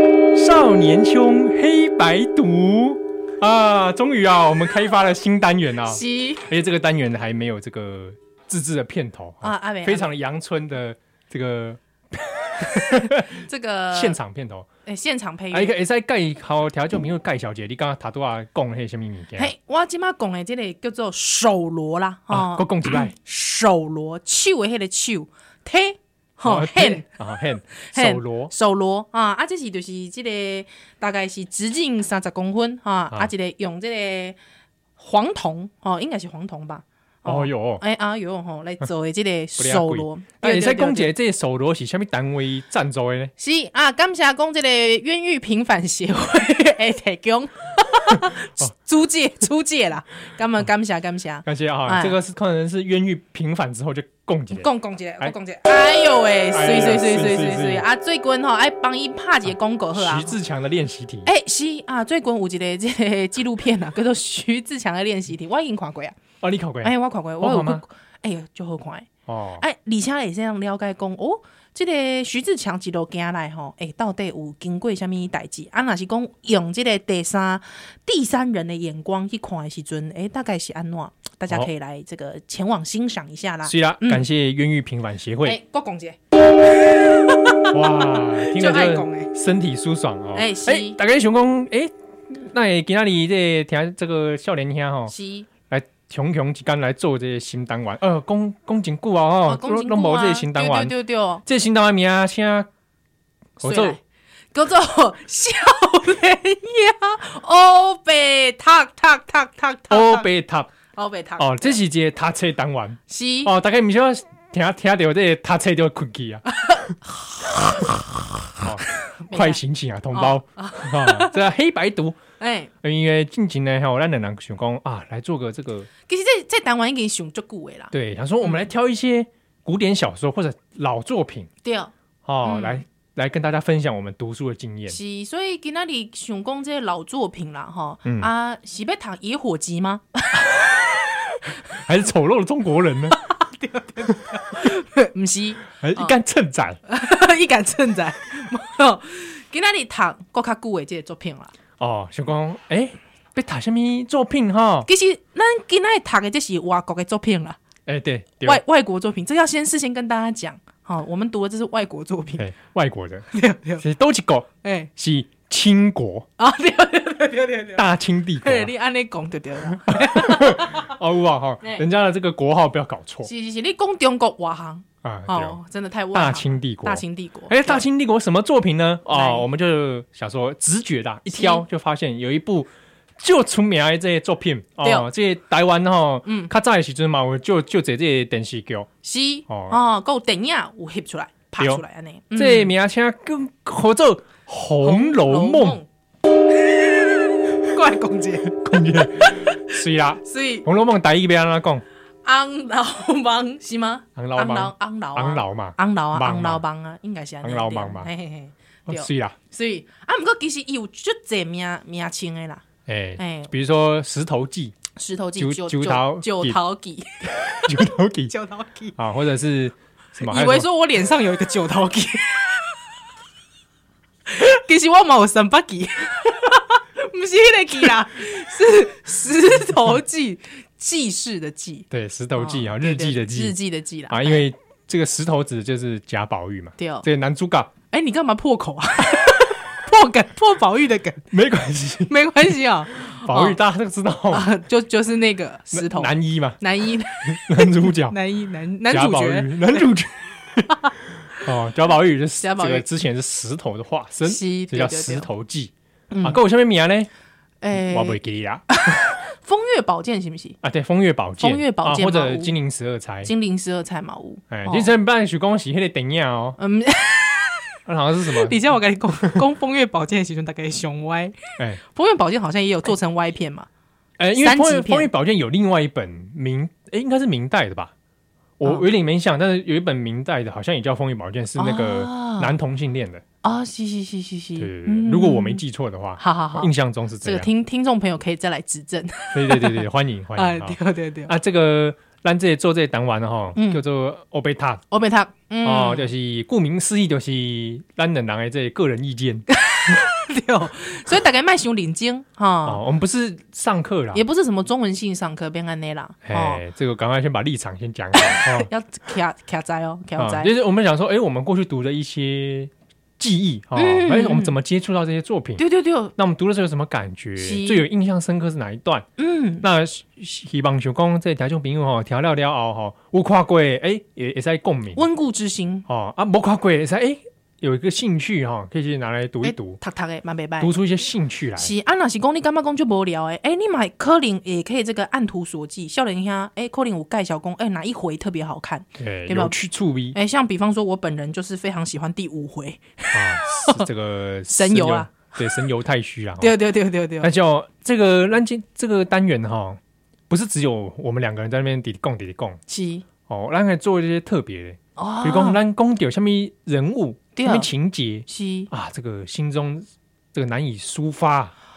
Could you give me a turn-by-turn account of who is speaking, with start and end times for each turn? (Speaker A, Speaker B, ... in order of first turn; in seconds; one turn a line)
Speaker A: 0.3-14.7
Speaker B: 5.8-6.5
Speaker B: 9.4-10.1
Speaker B: 13.2-14.2
Speaker B: 14.8-15.7
Speaker A: 15.5-19.5
Speaker B: 19.4-27.0
Speaker A: 22.3-23.1
Speaker A: 26.4-28.5
Speaker B: 27.8-34.4
Speaker B: 35.0-41.1
Speaker A: 37.2-37.8
Speaker A: 39.6-43.3
Speaker B: 43.4-52.2
Speaker A: 51.4-54.7
Speaker B: 54.5-60.3
Speaker A: 56.5-57.8
Speaker A: 59.9-61.3
Speaker B: 61.2-66.2
Speaker A: 66.4-67.8
Speaker B: 66.8-69.1
Speaker A: 69.3-69.6
Speaker B: 69.6-84.2
Speaker A: 83.6-85.6
Speaker B: 85.4-86.2
Speaker B: 86.7-89.3
Speaker A: 87.7-95.1
Speaker B: 90.3-91.0
Speaker B: 95.1-95.5
Speaker A: 95.7-102.7
Speaker B: 99.5-101.4
Speaker B: 103.6-104.0
Speaker A: 103.6-104.0
Speaker B: 104.5-110.3
Speaker A: 109.9-110.7
Speaker B: 110.9-111.8
Speaker A: 111.4-116.9
Speaker B: 113.1-113.5
Speaker B: 116.5-119.6
Speaker A: 118.6-122.2
Speaker B: 120.1-121.4
Speaker B: 122.4-122.7
Speaker A: 122.8-125.9
Speaker B: 126.1-128.7
Speaker A: 127.9-131.5
Speaker B: 131.6-131.9
Speaker A: 132.2-135.0
Speaker B: 132.4-132.8
Speaker B: 134.9-140.9
Speaker A: 138.0-138.3
Speaker A: 141.7-143.2
Speaker B: 143.2-146.2
Speaker A: 145.8-146.8
Speaker B: 146.8-151.5
Speaker A: 151.8-154.9
Speaker B: 154.9-157.6
Speaker A: 157.8-158.6
Speaker B: 158.4-162.4
Speaker A: 162.4-166.3
Speaker B: 163.3-163.8
Speaker B: 164.6-164.9
Speaker B: 166.4-167.9
Speaker A: 167.8-168.7
Speaker B: 168.4-170.9
Speaker A: 169.8-173.3
Speaker B: 173.2-177.8
Speaker A: 175.0-175.6
Speaker A: 176.1-188.9
Speaker B: 179.1-179.4
Speaker B: 181.3-181.6
Speaker B: 184.8-185.1
Speaker B: 186.2-186.5
Speaker B: 189.0-192.7
Speaker A: 189.5-189.8
Speaker A: 191.6-191.8
Speaker A: 192.3-195.8
Speaker B: 194.8-195.9
Speaker B: 196.6-199.7
Speaker A: 198.6-201.8
Speaker B: 200.2-200.7
Speaker B: 202.2-212.6
Speaker A: 204.2-206.6
Speaker A: 207.4-208.1
Speaker A: 208.9-209.3
Speaker A: 212.8-214.8
Speaker B: 213.2-213.5
Speaker B: 214.9-218.9
Speaker A: 215.4-216.6
Speaker A: 217.6-218.3
Speaker A: 218.9-220.7
Speaker B: 220.2-222.8
Speaker B: 224.3-234.4
Speaker A: 231.9-233.6
Speaker A: 234.1-237.7
Speaker B: 236.8-237.1
Speaker B: 237.9-241.2
Speaker A: 241.3-242.1
Speaker B: 242.1-243.6
Speaker A: 243.1-244.5
Speaker B: 244.3-249.9
Speaker A: 245.7-246.6
Speaker A: 247.2-248.2
Speaker A: 248.9-257.1
Speaker B: 252.4-252.8
Speaker B: 254.2-255.3
Speaker B: 256.1-256.4
Speaker B: 257.6-260.6
Speaker A: 257.7-259.0
Speaker A: 260.6-263.3
Speaker B: 261.4-262.6
Speaker B: 263.2-264.9
Speaker A: 264.5-266.6
Speaker B: 266.6-267.6
Speaker A: 267.9-268.6
Speaker B: 268.2-273.7
Speaker A: 274.2-277.9
Speaker B: 274.4-275.1
Speaker A: 278.6-283.2
Speaker B: 281.6-282.6
Speaker B: 283.4-285.6
Speaker A: 284.6-287.5
Speaker B: 286.2-286.7
Speaker B: 287.2-289.8
Speaker A: 289.3-294.8
Speaker B: 290.4-291.3
Speaker B: 293.6-293.8
Speaker B: 294.9-296.1
Speaker A: 295.6-299.4
Speaker B: 299.5-302.8
Speaker A: 302.6-304.2
Speaker B: 304.1-306.6
Speaker A: 306.2-308.7
Speaker B: 308.1-310.5
Speaker A: 310.2-315.6
Speaker B: 313.7-314.5
Speaker B: 315.6-316.1
Speaker A: 316.1-319.1
Speaker B: 317.4-317.8
Speaker B: 319.2-319.6
Speaker A: 319.6-325.0
Speaker B: 324.9-325.8
Speaker A: 325.9-329.8
Speaker B: 329.4-330.7
Speaker A: 330.6-331.7
Speaker B: 331.6-339.6
Speaker A: 339.0-340.2
Speaker B: 340.1-343.9
Speaker A: 343.1-346.6
Speaker B: 344.5-345.5
Speaker B: 346.4-347.3
Speaker A: 347.2-352.6
Speaker B: 352.7-353.0
Speaker A: 353.3-361.5
Speaker B: 355.0-355.6
Speaker B: 357.4-357.7
Speaker B: 358.2-358.7